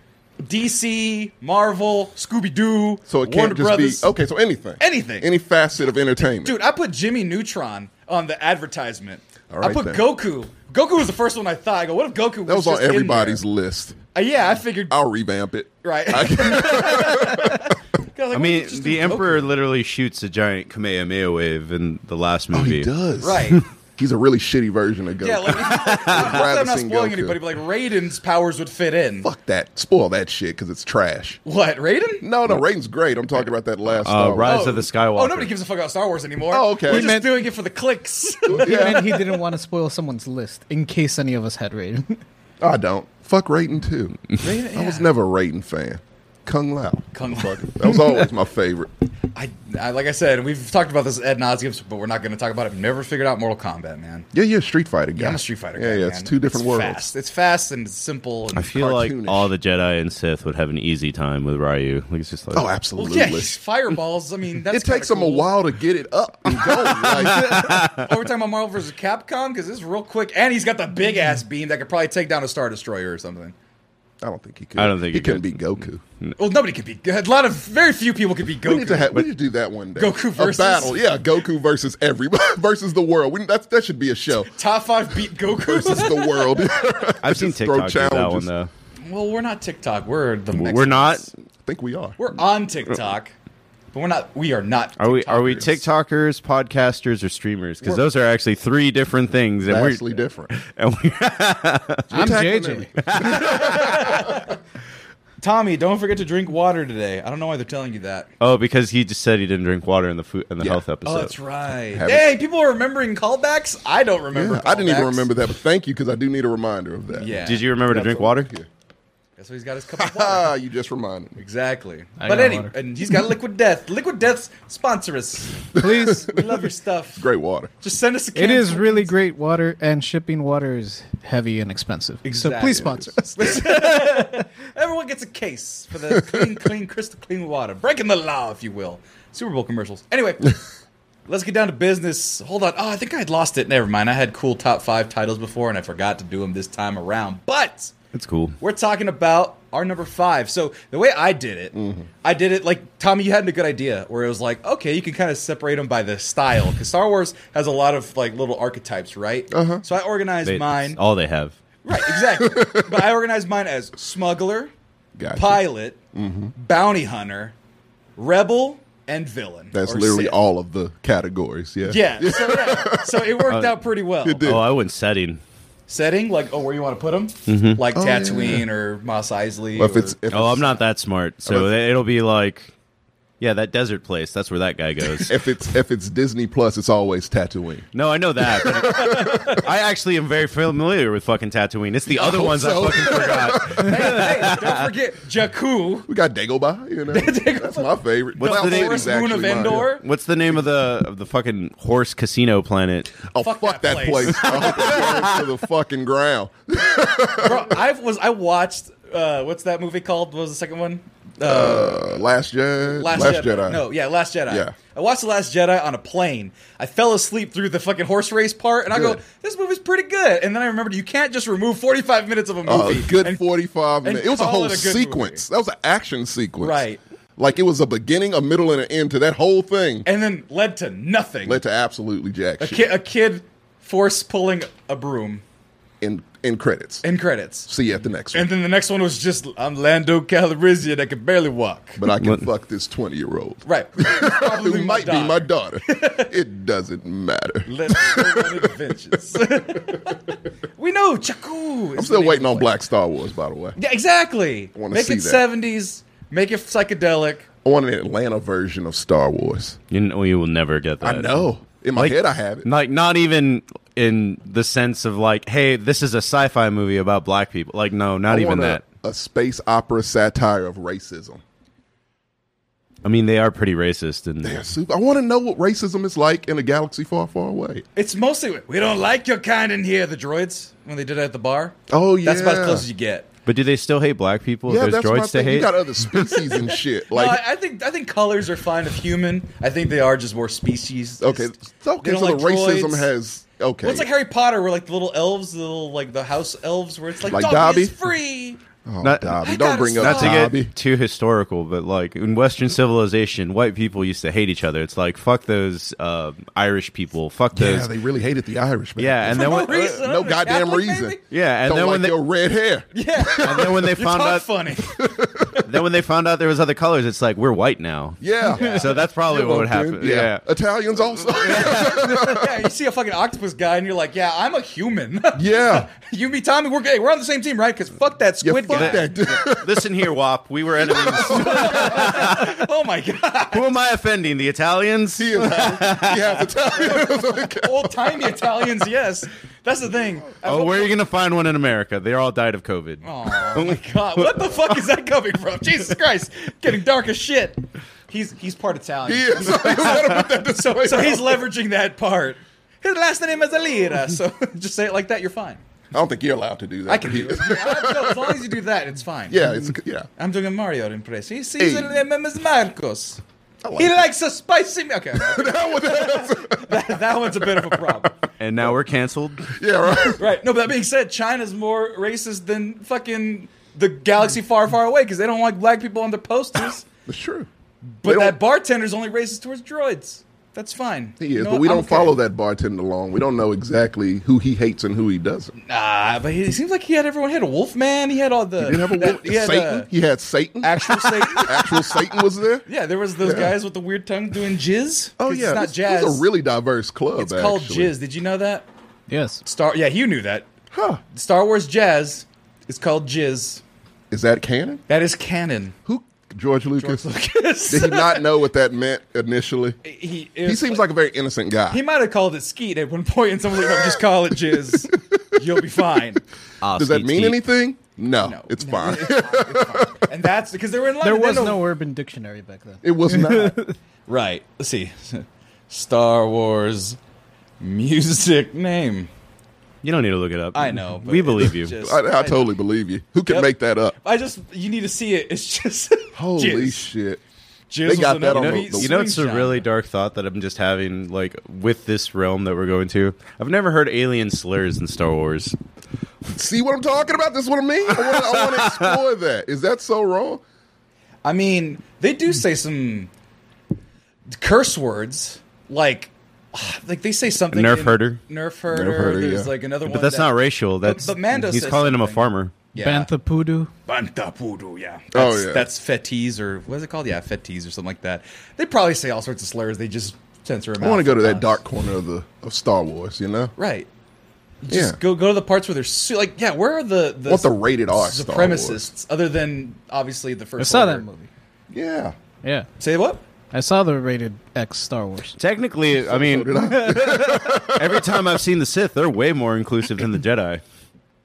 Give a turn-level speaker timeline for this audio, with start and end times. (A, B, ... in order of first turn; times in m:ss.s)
0:00.4-0:04.1 A
0:03.1-0:06.6 B
0:04.8-0:05.3 A
0:06.4-0:13.4 A
0:09.5-0:10.1 B
0:12.5-0:14.0 B
0:14.2-0:15.0 A
0:14.9-0:17.8 B
0:15.8-0:19.5 A
0:18.3-0:22.9 C
0:22.5-0:27.4 B
0:23.2-0:23.6 A
0:25.2-0:29.3 A
0:25.9-0:26.1 C
0:29.2-0:31.4 B
0:31.4-0:32.3 A
0:32.2-0:34.8 B
0:33.9-0:35.5 C
0:34.5-0:39.4 A
0:36.5-0:37.2 B
0:36.9-0:37.3 D
0:38.5-0:39.2 B
0:38.5-0:42.2 D
0:42.6-0:44.2 B
0:44.4-0:45.1 A
0:44.7-0:48.9 B
0:47.1-0:48.1 A
0:49.3-0:54.3 A
0:54.3-0:57.1 B
0:55.2-0:58.8 A
0:58.6-1:02.7 C
0:58.7-0:59.5 B
1:02.5-1:03.6 B
1:03.0-1:05.5 A
1:04.7-1:07.8 B
1:07.0-1:08.1 C
1:07.2-1:13.5 A
1:14.2-1:16.0 B
1:14.8-1:15.6 C
1:16.4-1:19.3 A
1:18.6-1:24.5 B
1:20.0-1:21.0 A
1:24.6-1:26.8 A
1:25.6-1:28.5 B
1:27.2-1:28.7 C
1:29.1-1:31.3 A
1:30.6-1:31.3 C
1:31.6-1:32.2 B
1:32.2-1:33.3 A
1:33.9-1:35.8 A
1:35.0-1:42.5 C
1:37.8-1:38.1 A
1:39.7-1:40.5 B
1:42.1-1:44.5 B
1:42.1-1:42.9 D
1:43.0-1:44.1 C
1:43.2-1:44.6 A
1:45.4-1:48.3 A
1:48.4-1:51.3 C
1:51.0-1:55.3 A
1:51.9-1:52.3 B
1:54.3-1:57.4 B
1:57.2-1:58.3 A
1:57.4-1:58.5 C
1:58.1-1:58.6 B
1:59.4-2:00.5 A
2:00.0-2:01.4 B
2:01.4-2:07.3 A
2:02.2-2:02.7 D
2:05.7-2:06.5 B
2:05.8-2:06.3 D
2:07.2-2:07.7 B
2:07.8-2:09.1 A
2:08.4-2:14.4 D
2:12.2-2:20.6 A
2:16.2-2:16.5 B
2:21.3-2:27.9 A
2:28.1-2:28.6 C
2:28.6-2:41.0 A
2:31.7-2:32.1 B
2:39.5-2:39.8 B
2:40.4-2:41.6 C
2:41.8-2:44.7 A
2:41.9-2:43.1 B
2:45.2-2:45.6 B
2:45.3-2:46.0 A
2:46.1-2:46.5 B
2:46.6-2:47.5 A
2:48.2-2:50.4 A
2:49.7-2:53.5 B
2:51.9-2:54.6 A
2:53.5-2:53.8 C
2:54.2-2:54.7 B
2:54.4-2:55.4 C
2:55.9-3:00.2 A
2:57.5-2:57.8 C
2:58.0-2:58.7 B
2:59.8-3:00.8 B
3:00.3-3:02.7 C
3:01.5-3:01.8 B
3:03.4-3:05.3 C
3:05.2-3:07.9 B
3:07.9-3:14.7 C
3:08.5-3:09.6 B
3:08.8-3:09.7 A
3:12.1-3:14.4 B
3:13.7-3:16.1 A
3:16.1-3:19.9 B
3:17.1-3:20.0 A
3:18.4-3:23.1 C
3:23.3-3:27.8 B
3:23.4-3:25.4 A
3:24.4-3:25.3 C
3:27.4-3:32.0 A
3:31.4-3:33.9 B
3:33.0-3:43.4 A
3:34.5-3:34.8 B
3:38.9-3:39.2 B
3:42.6-3:46.8 B
3:44.0-3:45.4 A
3:46.6-3:47.0 A
3:47.4-3:50.1 B
3:50.1-3:51.6 A
3:51.5-3:52.9 B
3:52.6-3:55.4 A
3:56.0-3:57.0 B
3:57.0-3:57.7 A
3:57.7-3:58.5 B
3:58.3-4:02.0 A
4:02.0-4:08.7 B
4:02.2-4:02.5 C
4:03.7-4:06.3 A
4:07.7-4:12.7 A
4:12.0-4:13.8 B
4:13.8-4:17.5 A
4:14.8-4:15.4 B
4:17.6-4:19.8 B
4:19.9-4:28.8 C
4:21.0-4:22.7 B
4:28.3-4:31.4 B
4:33.0-4:34.6 C
4:34.4-4:37.8 B
4:38.0-4:43.3 A
4:41.9-4:42.9 B
4:43.5-4:45.8 C
4:44.7-4:47.4 B
4:46.2-4:53.1 A
4:51.2-4:54.1 B
4:53.8-4:58.6 A
4:57.3-4:57.9 B
4:58.9-5:00.7 B
4:59.0-4:59.4 C
4:59.4-5:00.5 A
5:00.0-5:07.9 C
5:07.5-5:13.7 B
5:09.0-5:10.0 C
5:09.3-5:11.2 A
5:11.3-5:12.2 C
5:12.9-5:15.0 A
5:13.4-5:14.5 C
5:14.9-5:15.6 B
5:15.6-5:20.4 C
5:18.2-5:22.6 B
5:21.3-5:22.0 C
5:21.5-5:29.2 A
5:25.4-5:25.9 B
5:28.4-5:29.9 B
5:28.7-5:32.5 C
5:30.8-5:32.4 B
5:31.1-5:33.7 A
5:33.5-5:36.4 C
5:35.2-5:38.3 B
5:36.7-5:41.0 A
5:40.4-5:43.8 C
5:43.0-5:55.6 A
5:49.0-5:51.5 B
5:55.9-5:58.4 B
5:56.9-5:59.5 A
5:59.3-6:00.1 B
6:00.2-6:03.2 A
6:01.6-6:02.0 B
6:03.6-6:04.0 B
6:03.8-6:08.1 A
6:05.2-6:07.8 B
6:08.4-6:09.5 C
6:09.5-6:10.2 B
6:10.2-6:16.9 A
6:17.1-6:17.5 B
6:18.0-6:22.2 A
6:18.0-6:18.4 B
6:21.2-6:25.5 B
6:25.6-6:29.9 A
6:28.6-6:32.6 B
6:30.6-6:32.0 A
6:32.7-6:36.3 A
6:33.2-6:33.6 B
6:35.2-6:37.9 B
6:37.2-6:38.7 A
6:39.1-6:39.4 D
6:39.4-6:40.5 A
6:40.7-6:41.0 B
6:41.1-6:43.6 A
6:44.1-6:44.8 B
6:44.9-6:45.8 A
6:45.9-6:47.0 B
6:46.8-6:48.3 A
6:47.7-6:49.8 B
6:49.8-6:50.9 A
6:50.4-6:51.8 B
6:51.7-6:56.2 A
6:54.7-6:55.4 B
6:56.6-6:57.4 C
6:56.7-7:00.1 B
6:58.2-7:01.7 A
7:01.0-7:03.7 D
7:02.8-7:03.6 B
7:04.1-7:07.0 A
7:07.6-7:09.1 A
7:09.8-7:11.7 C
7:10.5-7:12.5 A
7:11.8-7:14.0 B
7:13.3-7:16.9 A
7:16.2-7:17.2 B
7:17.7-7:19.7 A
7:17.8-7:18.9 B
7:18.3-7:25.6 C
7:26.3-7:30.4 B
7:28.0-7:28.9 C
7:31.2-7:33.1 A
7:34.4-7:43.1 A
7:37.5-7:38.2 C
7:38.7-7:39.5 B
7:39.9-7:42.5 C
7:42.8-7:43.7 D
7:43.9-7:51.6 A
7:45.1-7:45.7 B
7:50.8-7:53.5 B
7:53.6-7:53.9 A
7:54.6-8:01.1 A
7:54.7-7:55.0 B
7:57.3-7:58.9 B
8:00.6-8:01.3 D
8:01.7-8:02.2 B
8:02.8-8:03.2 A
8:03.5-8:05.4 D
8:05.4-8:10.6 C
8:05.9-8:08.2 B